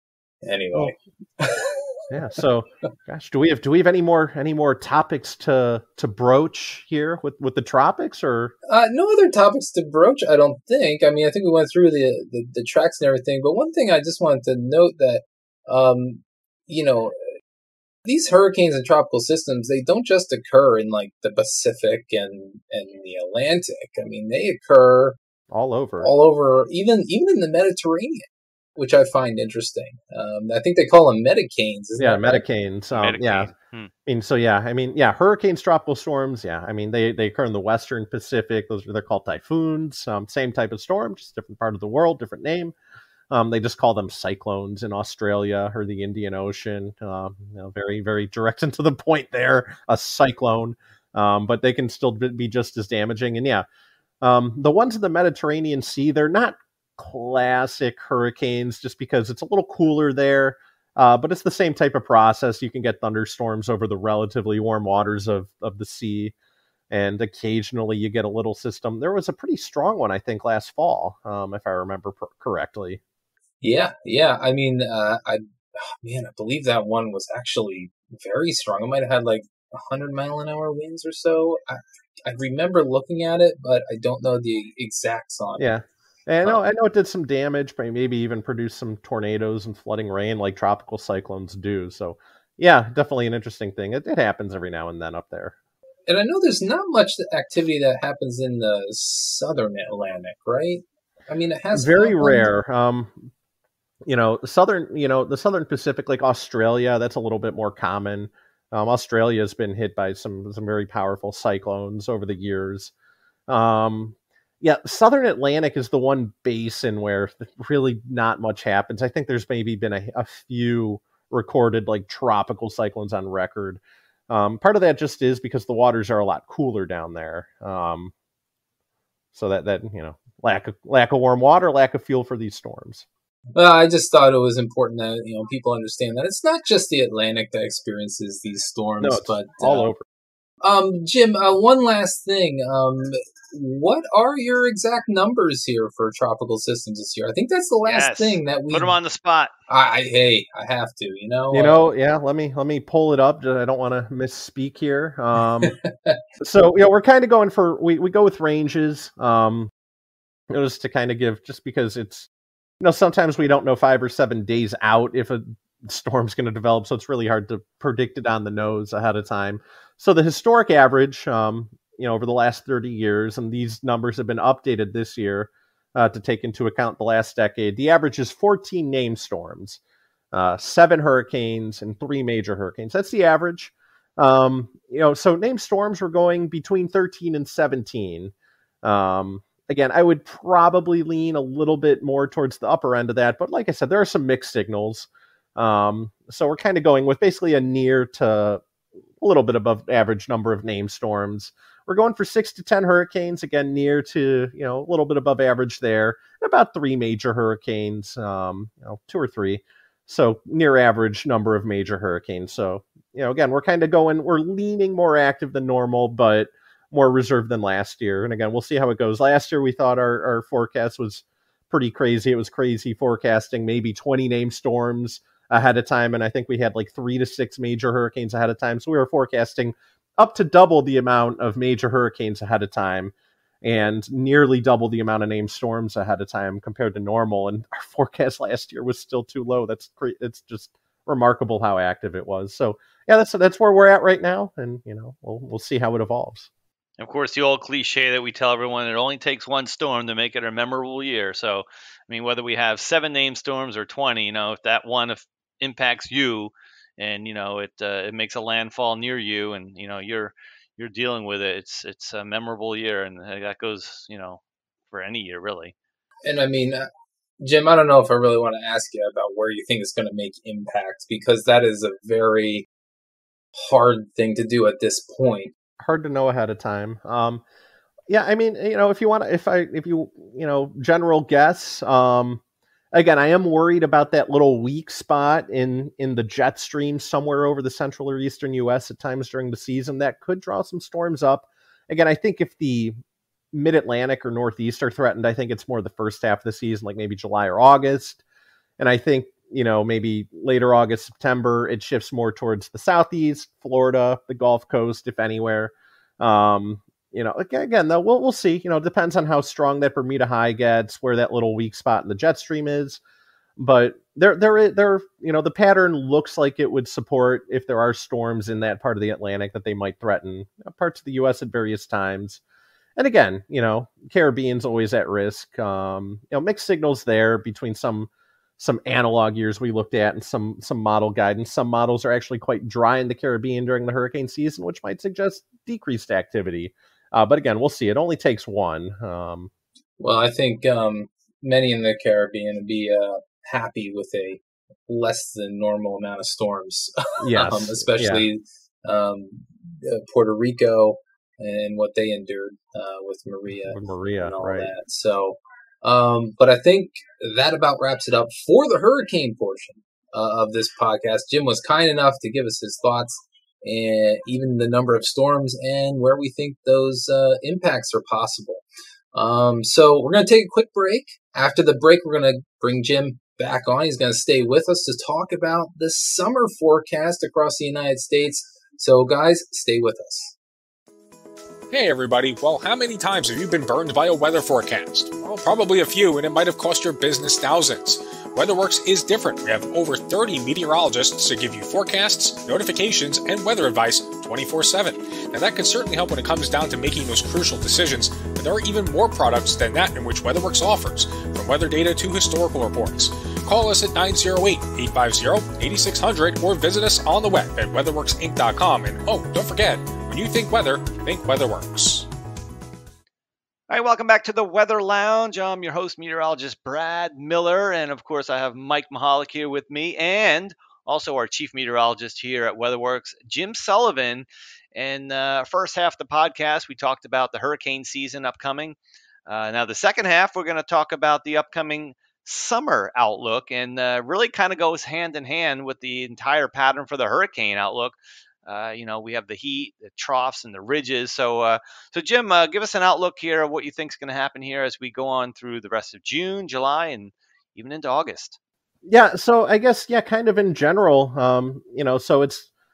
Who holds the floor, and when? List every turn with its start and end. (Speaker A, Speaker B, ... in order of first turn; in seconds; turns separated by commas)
Speaker A: 0.4-2.4, Speaker B: 2.1-8.5, Speaker A: 8.7-17.2, Speaker A: 18.1-25.2, Speaker B: 25.5-26.1, Speaker A: 26.0-32.4, Speaker B: 32.0-33.5, Speaker C: 33.0-33.9, Speaker B: 34.1-42.7, Speaker B: 43.3-53.7, Speaker B: 54.2-66.3, Speaker B: 66.9-73.0, Speaker A: 73.6-85.7, Speaker B: 85.6-95.5, Speaker A: 96.1-102.5, Speaker B: 101.7-103.3, Speaker B: 104.0-112.9, Speaker B: 113.5-128.1, Speaker B: 129.3-133.1, Speaker A: 133.6-139.9, Speaker B: 139.0-140.0, Speaker A: 140.6-148.9, Speaker C: 147.8-149.5, Speaker A: 149.7-151.8, Speaker B: 151.5-155.8, Speaker B: 156.4-159.7, Speaker B: 160.5-162.3, Speaker B: 162.8-179.8, Speaker B: 180.3-198.6, Speaker B: 199.2-246.5, Speaker C: 247.0-265.7, Speaker A: 266.2-266.9, Speaker A: 267.4-272.7, Speaker A: 273.6-275.5, Speaker B: 275.8-277.4, Speaker B: 278.1-282.4, Speaker B: 282.9-292.9, Speaker B: 293.5-298.2, Speaker B: 298.8-313.0, Speaker B: 313.6-322.4, Speaker B: 323.0-339.5, Speaker A: 340.0-380.4, Speaker B: 347.2-348.3, Speaker B: 353.6-354.7, Speaker D: 381.7-412.1, Speaker C: 413.7-448.4, Speaker B: 448.9-452.5